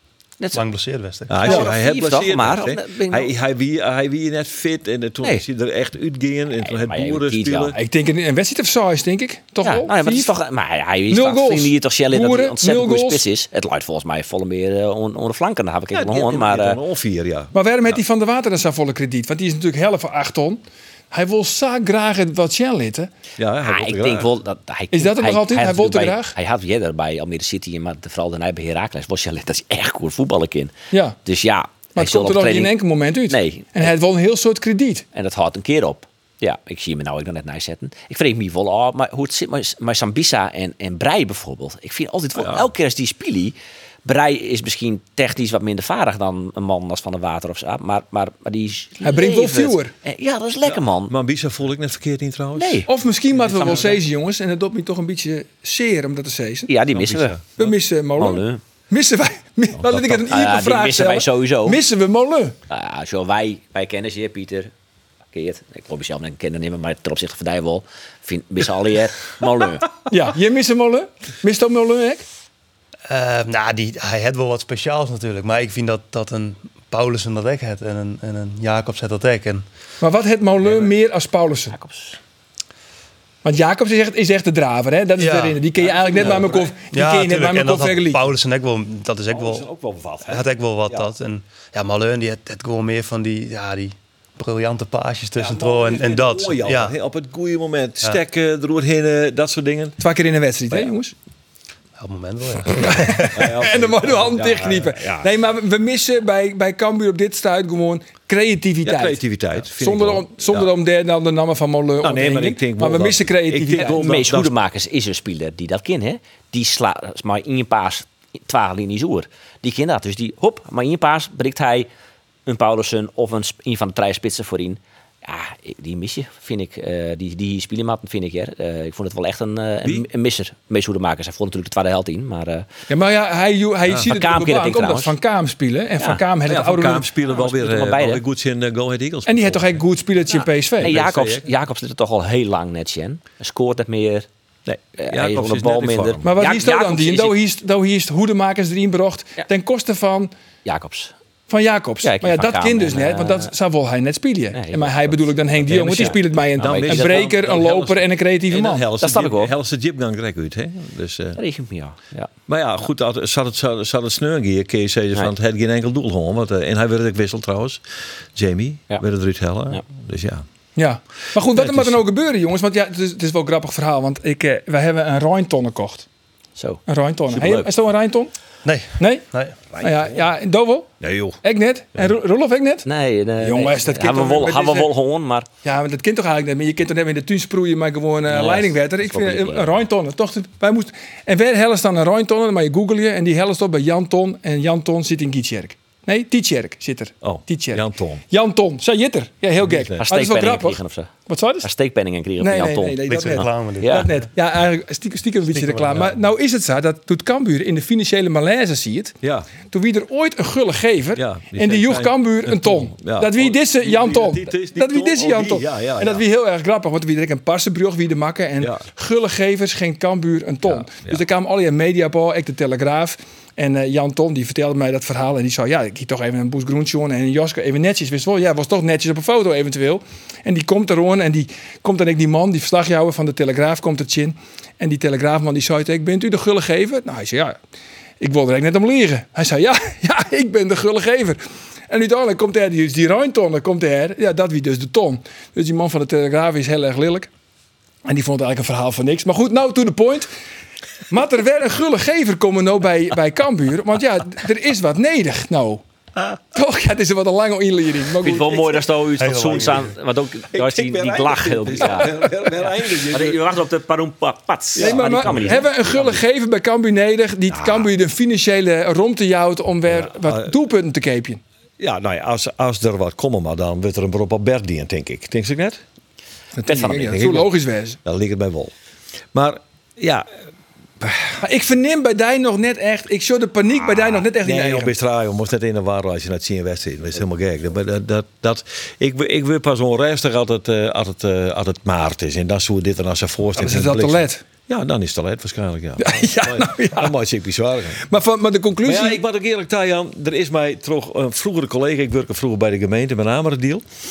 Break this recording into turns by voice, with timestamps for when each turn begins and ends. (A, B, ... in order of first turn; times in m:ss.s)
0:00.5-0:01.4 A
0:01.3-0:07.8 B
0:01.4-0:03.3 C
0:06.6-0:07.8 C
0:07.7-0:10.3 D
0:09.6-0:16.8 C
0:11.1-0:13.2 D
0:15.9-0:18.0 B
0:17.5-0:23.1 D
0:23.4-0:24.3 B
0:23.6-0:30.7 C
0:24.9-0:26.3 D
0:31.2-0:32.8 C
0:32.0-0:35.0 D
0:33.3-0:33.9 C
0:35.1-0:51.1 C
0:42.4-0:42.6 B
0:49.0-0:49.9 D
0:50.6-0:52.9 B
0:52.6-0:54.0 C
0:52.9-0:56.7 D
0:56.7-0:57.5 C
0:56.9-0:57.7 B
0:57.6-1:02.5 D
0:58.2-0:58.6 C
0:59.8-1:00.2 B
1:00.3-1:01.8 C
1:02.7-1:04.7 C
1:05.3-1:10.0 C
1:10.1-1:12.2 D
1:13.1-1:19.6 A
1:20.0-1:21.7 D
1:21.7-1:22.2 C
1:23.4-1:28.3 D
1:25.2-1:25.6 A
1:25.7-1:26.7 B
1:26.9-1:29.6 A
1:29.3-1:31.1 B
1:30.2-1:36.9 A
1:35.4-1:40.0 B
1:40.0-1:41.1 D
1:42.0-1:43.3 A
1:42.8-1:45.3 B
1:42.8-1:54.0 D
1:48.8-1:50.7 B
1:52.0-1:54.5 B
1:53.8-2:01.9 C
2:02.4-2:12.7 C
2:12.9-2:17.0 D
2:14.1-2:15.1 C
2:16.4-2:19.8 B
2:17.3-2:18.2 C
2:19.2-2:20.9 D
2:20.8-2:21.5 B
2:20.8-2:24.3 C
2:24.6-2:26.2 B
2:25.0-2:27.4 C
2:26.2-2:30.3 D
2:30.6-2:31.1 C
2:31.5-2:38.8 D
2:32.0-2:33.5 C
2:34.5-2:37.3 C
2:35.6-2:41.4 B
2:39.0-2:39.5 C
2:41.4-2:42.3 C
2:42.5-2:47.8 B
2:48.3-2:50.4 B
2:50.8-2:56.0 D
2:51.5-2:52.0 B
2:56.6-2:57.7 C
2:56.9-2:58.3 D
2:58.6-2:59.6 A
2:59.0-2:59.2 D
2:59.7-3:00.3 B
2:59.8-3:00.9 D
3:01.0-3:01.4 B
3:01.4-3:02.8 D
3:02.8-3:05.5 C
3:03.4-3:04.9 D
3:05.6-3:21.7 D
3:08.3-3:09.8 C
3:17.2-3:18.2 B
3:19.6-3:20.0 B
3:20.0-3:21.1 C
3:21.6-3:24.1 C
3:22.4-3:29.2 D
3:23.1-3:24.2 A
3:25.5-3:26.1 A
3:29.2-3:29.5 B
3:29.7-3:57.6 D
3:31.1-3:36.2 B
3:38.6-3:38.8 B
3:40.6-3:41.2 B
3:58.2-4:07.3 D
4:08.0-4:10.3 D
4:11.1-4:15.8 D
4:16.5-4:18.6 D
4:18.2-4:26.2 C
4:18.4-4:18.8 B
4:19.2-4:19.9 A
4:20.5-4:23.4 B
4:21.8-4:22.2 D
4:24.8-4:31.4 D
4:24.8-4:25.7 B
4:27.5-4:27.8 B
4:29.9-4:30.5 B
4:31.8-4:35.8 B
4:36.6-4:38.0 D
4:36.7-4:37.1 C
4:36.9-4:38.7 B
4:39.3-4:40.3 B
4:41.0-4:41.4 B
4:41.4-4:44.9 D
4:43.9-4:58.0 B
4:53.5-4:54.4 D
4:56.0-4:57.1 D
4:58.0-4:59.2 D
4:58.8-5:03.8 B